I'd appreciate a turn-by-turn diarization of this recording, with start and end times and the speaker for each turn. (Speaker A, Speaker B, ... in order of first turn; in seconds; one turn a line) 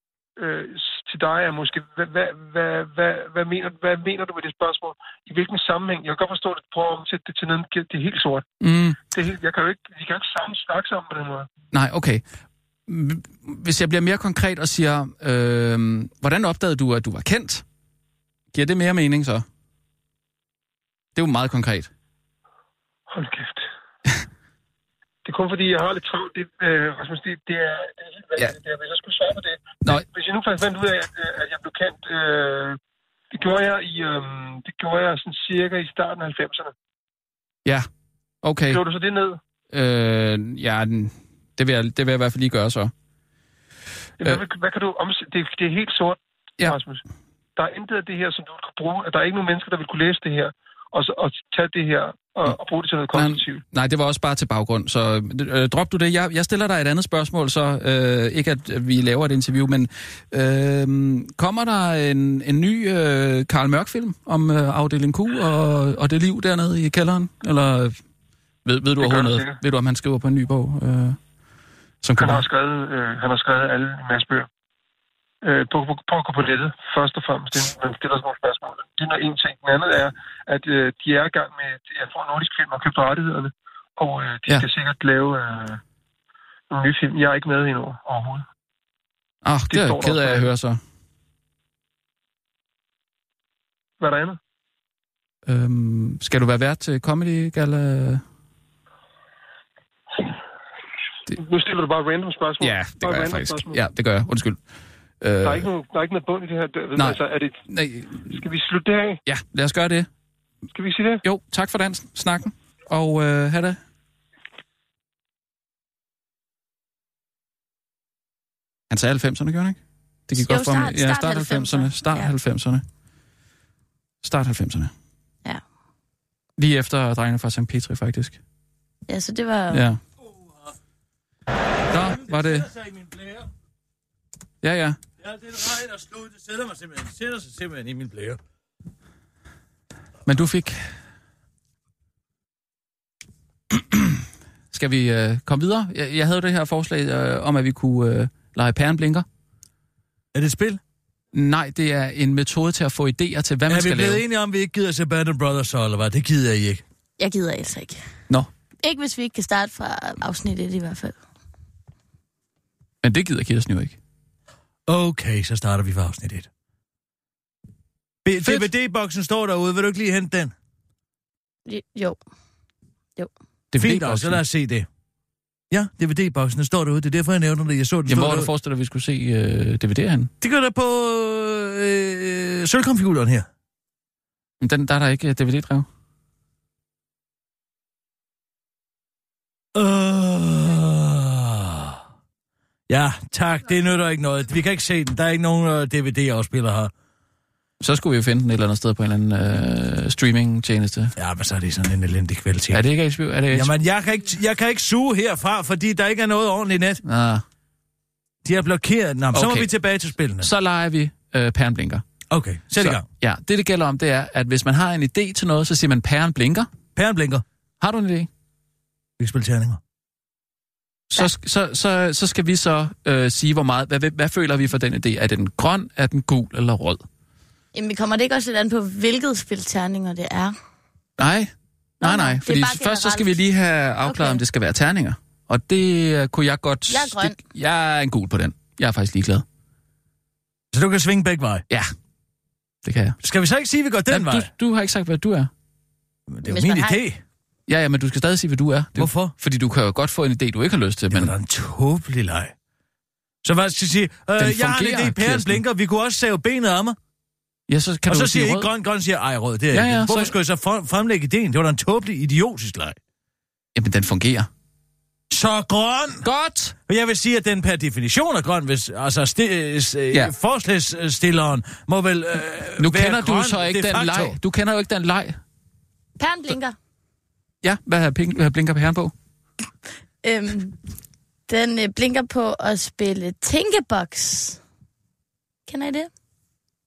Speaker A: 0.4-8.4
Speaker B: 8.6-9.0
Speaker A: 9.1-11.5
Speaker B: 11.7-12.2
Speaker B: 12.9-17.6
Speaker B: 18.5-19.4
Speaker B: 21.1-21.9
Speaker A: 23.1-23.6
Speaker A: 25.2-32.8
Speaker A: 33.3-36.7
Speaker B: 38.4-38.8
Speaker A: 38.7-39.4
Speaker B: 39.7-42.9
Speaker A: 44.2-47.0
Speaker A: 47.5-53.6
Speaker B: 53.1-68.0
Speaker B: 68.6-71.2
Speaker A: 69.0-69.6
Speaker B: 72.0-72.4
Speaker A: 72.2-74.5
Speaker A: 75.4-85.8
Speaker A: 86.7-88.5
Speaker B: 89.4-90.8
Speaker A: 89.7-90.5
Speaker A: 94.0-94.4
Speaker B: 95.5-98.2
Speaker A: 101.3-103.8
Speaker B: 102.6-104.6
Speaker B: 105.2-105.7
Speaker A: 105.4-107.6
Speaker B: 107.0-108.4
Speaker A: 108.3-109.2
Speaker B: 109.2-110.1
Speaker A: 110.7-111.2
Speaker B: 111.2-113.8
Speaker B: 118.9-119.8
Speaker B: 120.3-122.8
Speaker C: 120.3-122.3
Speaker B: 124.2-124.9
Speaker B: 126.6-128.4
Speaker C: 129.1-129.9
Speaker B: 129.7-130.0
Speaker D: 130.3-130.5
Speaker B: 131.9-132.7
Speaker D: 131.9-133.5
Speaker B: 134.6-135.0
Speaker D: 135.2-138.4
Speaker B: 140.2-140.8
Speaker B: 143.7-144.2
Speaker B: 144.7-149.2
Speaker D: 150.3-150.8
Speaker B: 151.3-154.2
Speaker D: 153.7-156.8
Speaker C: 157.2-158.1
Speaker C: 158.8-161.2
Speaker B: 163.0-163.9
Speaker D: 164.9-166.5
Speaker D: 168.2-170.5
Speaker B: 168.4-168.7
Speaker C: 171.7-172.2
Speaker B: 173.7-174.4
Speaker D: 173.8-174.9
Speaker D: 175.7-178.5
Speaker B: 178.1-180.3
Speaker D: 180.4-183.5
Speaker B: 184.6-185.8
Speaker D: 189.7-192.0
Speaker D: 192.9-196.9
Speaker B: 197.8-201.1
Speaker D: 201.2-202.8
Speaker B: 202.7-203.7
Speaker D: 203.5-207.0
Speaker B: 207.0-207.4
Speaker D: 208.4-210.5
Speaker B: 209.3-209.7
Speaker B: 210.4-212.0
Speaker D: 212.3-213.0
Speaker B: 212.8-216.7
Speaker D: 216.9-217.4
Speaker B: 217.8-218.3
Speaker D: 219.2-219.8
Speaker B: 221.1-227.0
Speaker C: 227.7-230.5
Speaker B: 231.2-231.5
Speaker C: 232.0-233.3
Speaker B: 232.0-239.4
Speaker C: 234.0-234.4
Speaker C: 236.9-237.3
Speaker D: 240.7-241.6
Speaker B: 242.8-243.2
Speaker D: 243.2-244.5
Speaker B: 244.1-245.5
Speaker D: 246.3-247.2
Speaker C: 246.4-247.0
Speaker B: 247.7-251.3
Speaker D: 248.9-249.3
Speaker D: 251.1-252.5
Speaker D: 253.4-257.0
Speaker B: 254.4-255.6
Speaker B: 257.7-258.7
Speaker D: 258.1-263.0
Speaker B: 259.7-260.3
Speaker B: 263.8-264.5
Speaker D: 265.3-266.2
Speaker B: 266.2-266.7
Speaker D: 266.9-274.4
Speaker B: 272.8-275.4
Speaker C: 276.2-276.8
Speaker B: 277.6-279.1
Speaker C: 280.2-280.8
Speaker C: 281.5-284.6
Speaker C: 285.7-286.1